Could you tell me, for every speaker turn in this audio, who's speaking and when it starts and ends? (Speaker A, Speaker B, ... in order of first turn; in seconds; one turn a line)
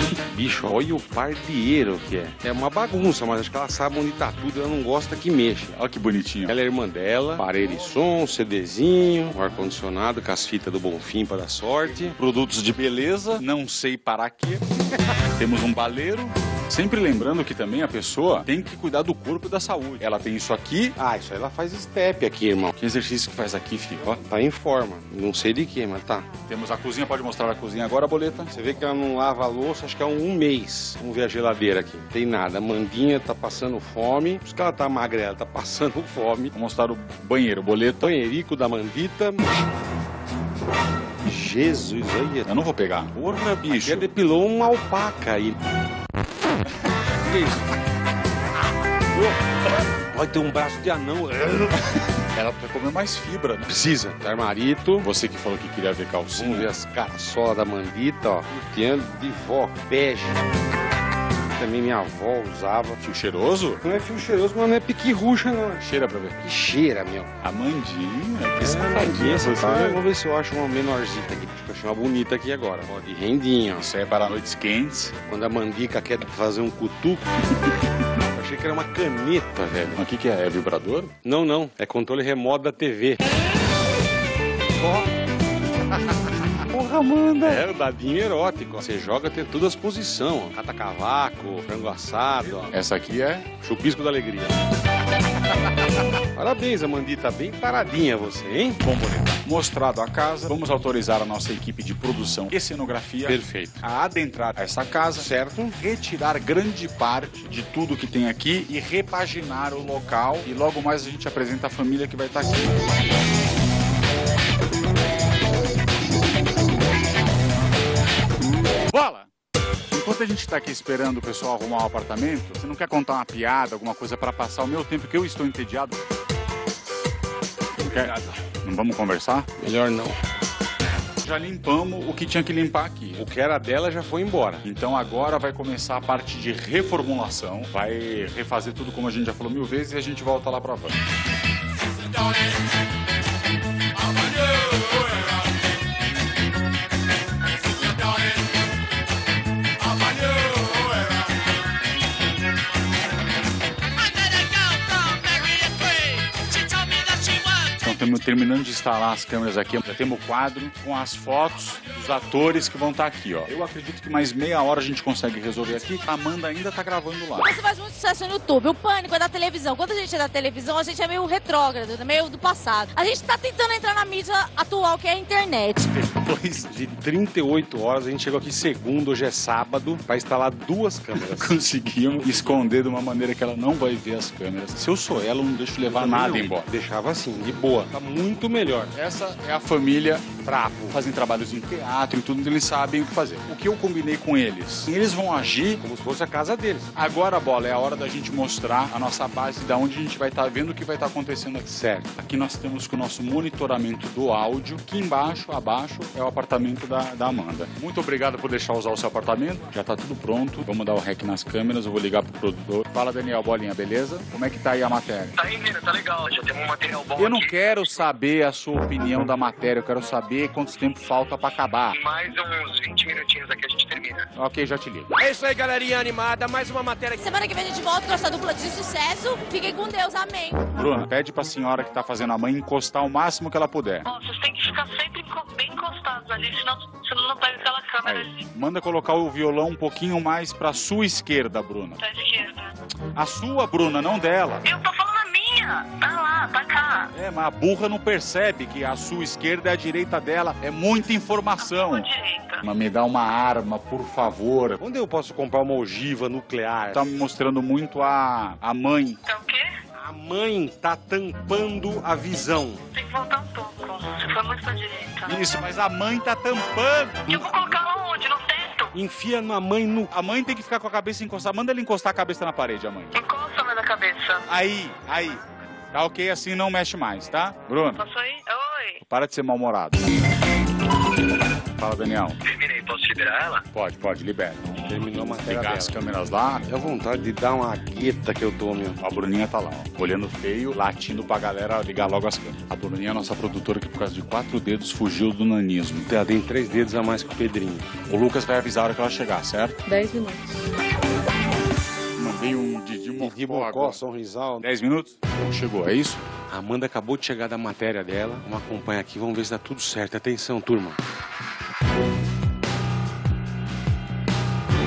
Speaker A: 0.2-5.8
Speaker B: 5.7-6.5
Speaker A: 6.5-12.2
Speaker B: 12.2-14.6
Speaker B: 15.3-21.0
Speaker A: 21.0-22.7
Speaker B: 22.8-24.2
Speaker A: 24.2-26.3
Speaker B: 26.5-28.5
Speaker A: 28.5-36.5
Speaker B: 36.5-38.1
Speaker A: 38.0-39.5
Speaker A: 41.2-42.5
Speaker B: 42.5-44.1
Speaker A: 43.8-45.6
Speaker A: 47.2-47.6
Speaker A: 50.1-51.8
Speaker B: 52.3-53.7
Speaker A: 53.7-55.1
Speaker B: 55.0-56.7
Speaker A: 56.3-60.4
Speaker A: 61.5-63.0
Speaker B: 63.0-63.8
Speaker A: 63.8-65.8
Speaker B: 65.8-66.4
Speaker A: 66.4-67.3
Speaker B: 67.4-70.0
Speaker A: 68.6-73.9
Speaker B: 73.8-75.1
Speaker A: 75.2-77.2
Speaker A: 78.3-80.0
Speaker B: 80.0-81.1
Speaker A: 81.2-83.2
Speaker B: 86.6-87.6
Speaker A: 87.4-92.7
Speaker B: 92.7-93.5
Speaker A: 93.6-94.5
Speaker A: 96.3-98.8
Speaker B: 98.8-112.8
Speaker A: 103.2-103.8
Speaker A: 105.2-105.8
Speaker B: 118.9-119.3
Speaker B: 119.9-126.0
Speaker B: 127.8-129.5
Speaker A: 129.6-130.2
Speaker B: 131.2-133.3
Speaker A: 133.2-134.6
Speaker B: 134.6-141.0
Speaker B: 157.8-167.5
Speaker C: 167.4-175.9
Speaker B: 175.9-176.7
Speaker A: 176.7-181.6
Speaker B: 181.2-186.7
Speaker A: 182.2-182.6
Speaker A: 185.8-188.9
Speaker B: 188.9-195.8
Speaker A: 190.4-191.0
Speaker A: 195.8-196.9
Speaker B: 196.9-215.3
Speaker A: 201.7-202.1
Speaker D: 215.3-218.0
Speaker B: 217.2-222.0
Speaker D: 221.9-224.3
Speaker B: 224.3-225.1
Speaker E: 225.2-227.3
Speaker C: 227.2-230.8
Speaker B: 230.7-234.1
Speaker F: 234.1-238.4
Speaker B: 238.0-242.0
Speaker F: 242.0-242.7
Speaker B: 243.2-244.7
Speaker F: 244.6-247.1
Speaker B: 247.1-252.1
Speaker F: 251.6-252.6
Speaker B: 252.6-254.8
Speaker A: 254.8-257.0
Speaker B: 256.9-259.2
Speaker F: 259.3-259.7
Speaker A: 260.0-262.8
Speaker F: 262.9-265.4
Speaker B: 265.3-267.3
Speaker F: 267.3-268.9
Speaker A: 267.3-267.8
Speaker A: 268.9-270.1
Speaker B: 270.1-273.2
Speaker F: 273.1-274.4
Speaker B: 274.5-278.0
Speaker F: 278.0-279.0
Speaker B: 279.1-280.1
Speaker B: 281.8-282.4
Speaker D: 282.5-283.6
Speaker B: 283.7-286.7
Speaker A: 284.9-286.0
Speaker A: 286.7-289.0
Speaker B: 289.0-296.1
Speaker A: 296.1-297.9
Speaker B: 298.1-299.8
Speaker C: 299.9-300.6
Speaker B: 302.2-304.0
Speaker A: 303.2-304.6
Speaker B: 304.6-306.2
Speaker A: 306.5-311.0